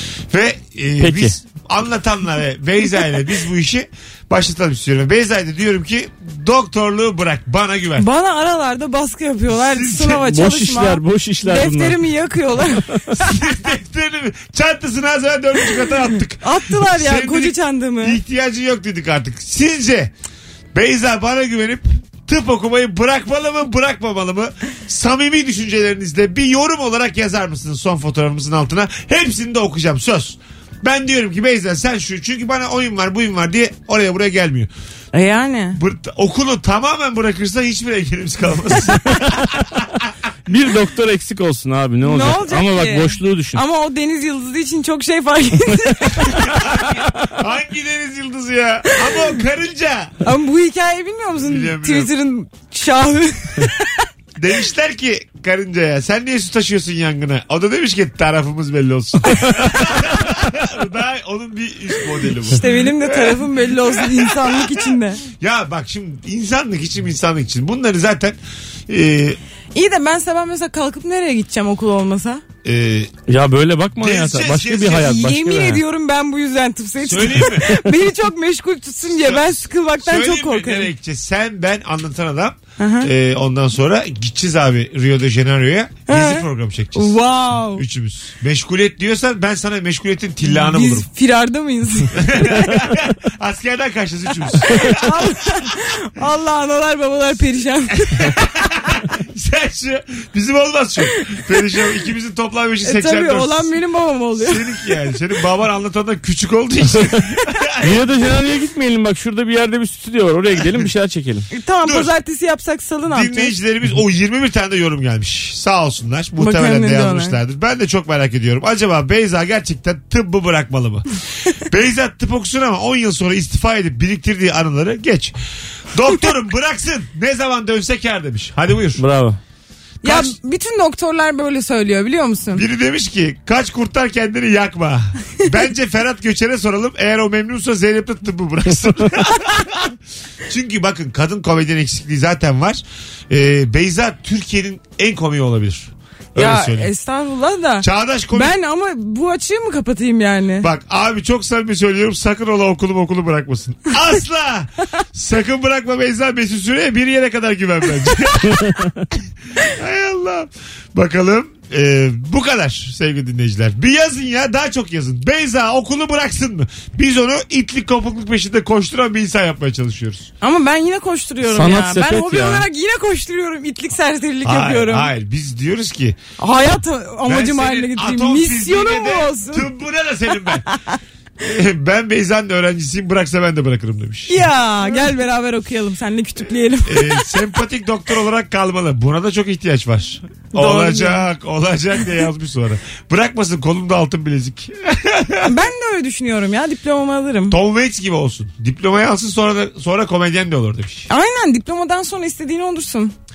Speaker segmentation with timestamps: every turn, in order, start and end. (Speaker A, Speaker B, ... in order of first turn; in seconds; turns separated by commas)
Speaker A: 0.3-8.1, Speaker B: 1.0-1.3, Speaker C: 8.0-13.3, Speaker A: 9.5-10.2, Speaker B: 10.1-12.0, Speaker A: 13.1-20.1, Speaker C: 16.4-18.2, Speaker A: 20.7-34.7, Speaker C: 35.1-35.8, Speaker A: 35.7-39.9, Speaker B: 40.5-43.6, Speaker C: 42.0-46.5, Speaker A: 46.3-50.1, Speaker C: 50.2-53.9, Speaker A: 51.4-52.1, Speaker A: 54.4-69.4, Speaker C: 62.5-65.2, Speaker C: 69.7-72.4, Speaker A: 72.6-73.1, Speaker B: 73.3-75.8, Speaker A: 74.0-75.1, Speaker C: 75.0-80.9, Speaker A: 77.0-77.8, Speaker A: 79.1-91.1, Speaker C: 82.8-83.1, Speaker C: 86.1-86.4, Speaker C: 87.0-87.8, Speaker C: 90.4-92.7, Speaker A: 92.1-95.7, Speaker C: 94.6-98.3, Speaker A: 98.1-103.7, Speaker C: 102.8-104.6, Speaker A: 104.3-108.0, Speaker B: 107.8-111.5, Speaker A: 110.5-110.9, Speaker C: 111.5-113.5, Speaker A: 111.8-112.1, Speaker A: 113.1-125.4, Speaker C: 116.4-117.4, Speaker A: 125.9-129.1, Speaker B: 129.0-129.4, Speaker A: 130.0-130.4, Speaker C: 130.0-132.6, Speaker A: 132.5-139.9, Speaker A: 140.5-146.9, Speaker C: 146.4-150.7, Speaker A: 147.8-148.5, Speaker A: 150.6-158.8, Speaker A: 159.6-170.3, Speaker C: 170.4-175.1, Speaker B: 171.4-172.6, Speaker A: 174.4-176.2, Speaker C: 176.4-179.7, Speaker A: 177.2-180.7, Speaker A: 181.4-185.1, Speaker C: 184.3-187.4, Speaker A: 186.8-195.5, Speaker C: 190.5-191.3, Speaker C: 195.4-197.6, Speaker A: 197.5-201.1, Speaker C: 201.1-203.1